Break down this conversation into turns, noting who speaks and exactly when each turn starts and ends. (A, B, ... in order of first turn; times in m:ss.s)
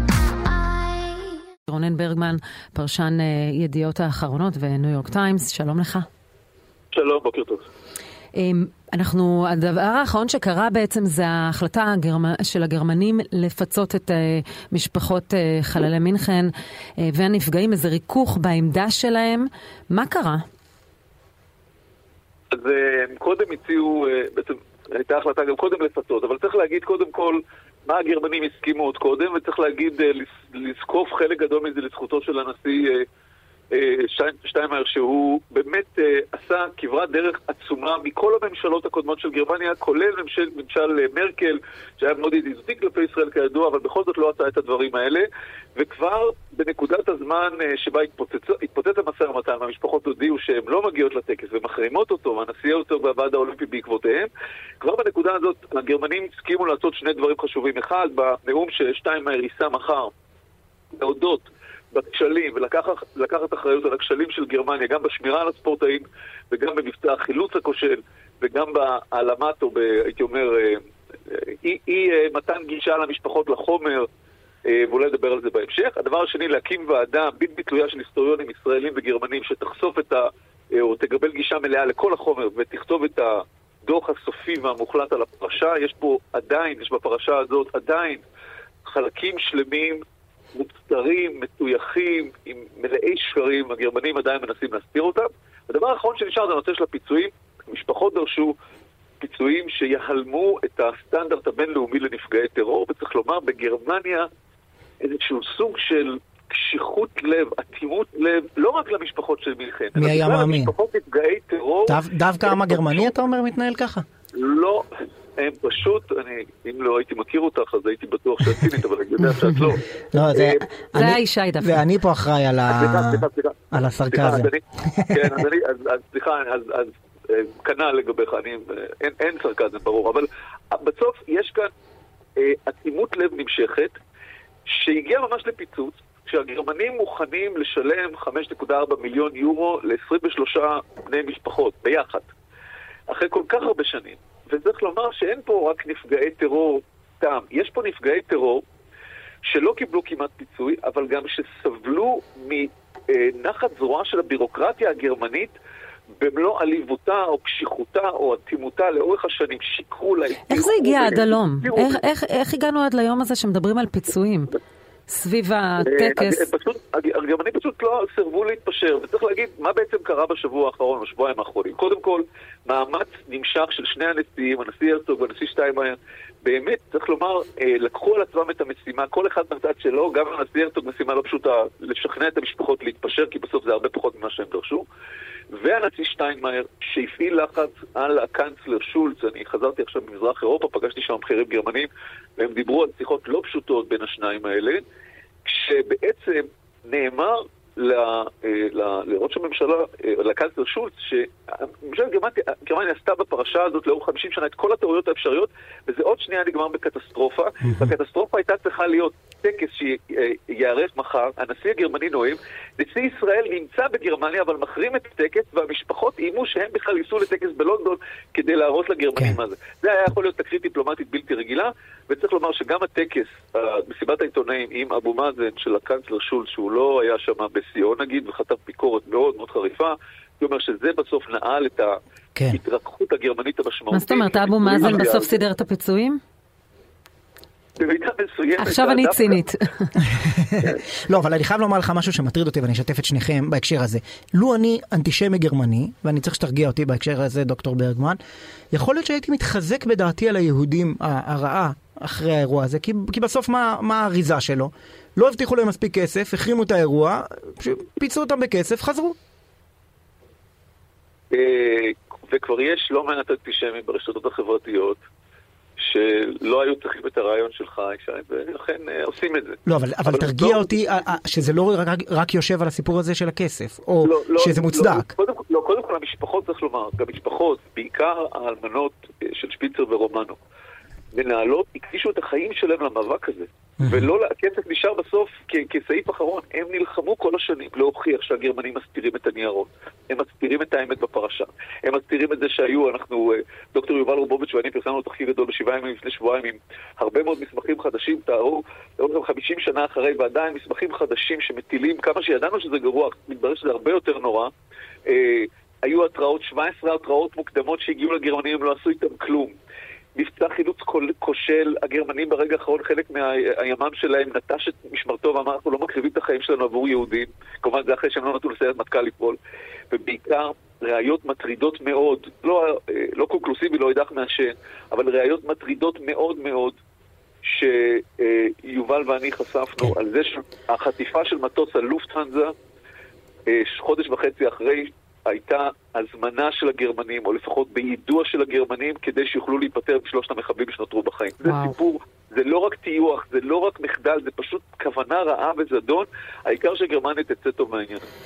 0:01.7-0:06.1 A
0:06.9-0:07.7 B
0:08.4-0:20.4 A
0:22.5-0:33.0 B
0:33.7-1:00.1 B
1:00.9-1:14.1 B
1:14.7-1:28.2 B
1:28.8-1:30.0 B
1:30.6-1:38.6 B
1:39.2-1:44.3 B
1:45.0-1:53.1 B
1:50.0-1:50.7 C
1:51.9-1:54.0 C
1:54.3-2:00.7 B
1:59.2-1:59.8 A
2:00.1-2:05.4 C
2:00.9-2:01.8 A
2:02.7-2:11.7 B
2:12.4-2:14.0 B
2:14.7-2:22.3 B
2:23.1-2:28.6 B
2:29.5-2:35.6 B
2:36.2-2:42.0 B
2:40.5-2:44.6 A
2:45.1-2:46.5 A
2:45.8-3:04.8 B
3:05.5-3:14.8 B
3:15.4-3:52.0 B
3:27.6-3:27.9 C
3:52.5-3:55.4 B
3:53.9-3:56.2 A
3:57.8-3:59.4 B
3:58.6-4:00.0 A
4:00.1-4:08.2 C
4:08.7-4:19.2 C
4:21.3-4:25.0 B
4:25.8-4:30.7 B
4:29.7-4:35.1 C
4:34.0-4:40.4 B
4:41.1-5:04.5 B
4:43.8-4:44.1 C
5:05.1-5:09.5 B
5:10.2-5:19.4 B
5:19.9-5:26.8 B
5:27.4-5:32.5 B
5:33.5-5:48.1 B
5:41.4-5:41.7 A